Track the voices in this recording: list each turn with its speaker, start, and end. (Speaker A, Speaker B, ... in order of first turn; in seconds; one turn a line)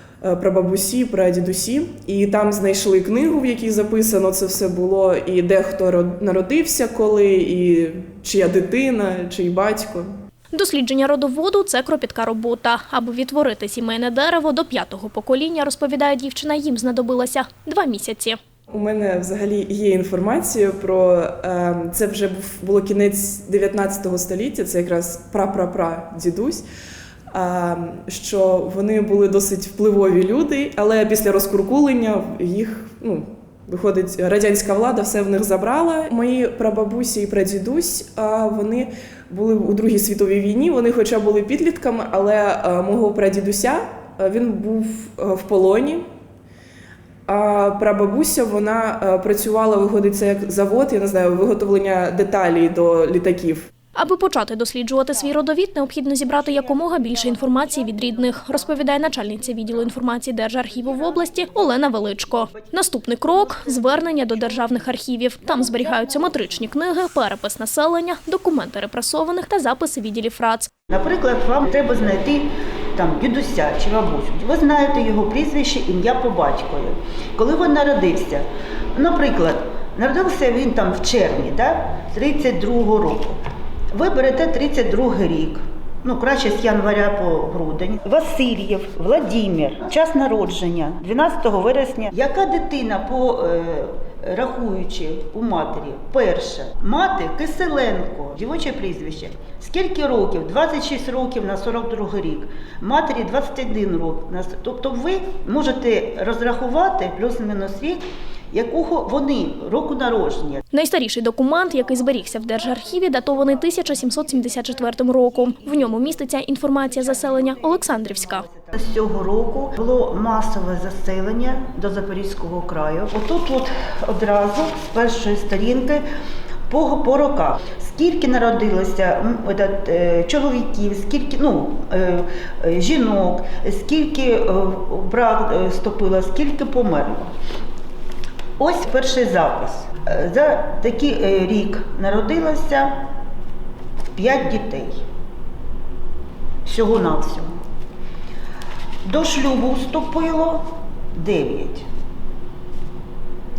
Speaker A: 0.2-10.1
Speaker B: 10.5-18.4
Speaker A: 18.7-26.6
Speaker A: 27.3-46.0
Speaker A: 47.3-53.7
Speaker B: 54.0-70.7
Speaker C: 56.6-59.0
Speaker C: 60.9-64.8
Speaker C: 65.5-66.6
Speaker C: 70.9-83.4
Speaker C: 83.9-110.6
Speaker B: 110.7-118.4
Speaker C: 115.3-116.0
Speaker C: 116.9-126.0
Speaker C: 126.7-137.3
Speaker C: 138.6-143.0
Speaker C: 144.2-145.0
Speaker C: 146.7-147.6
Speaker C: 149.0-151.9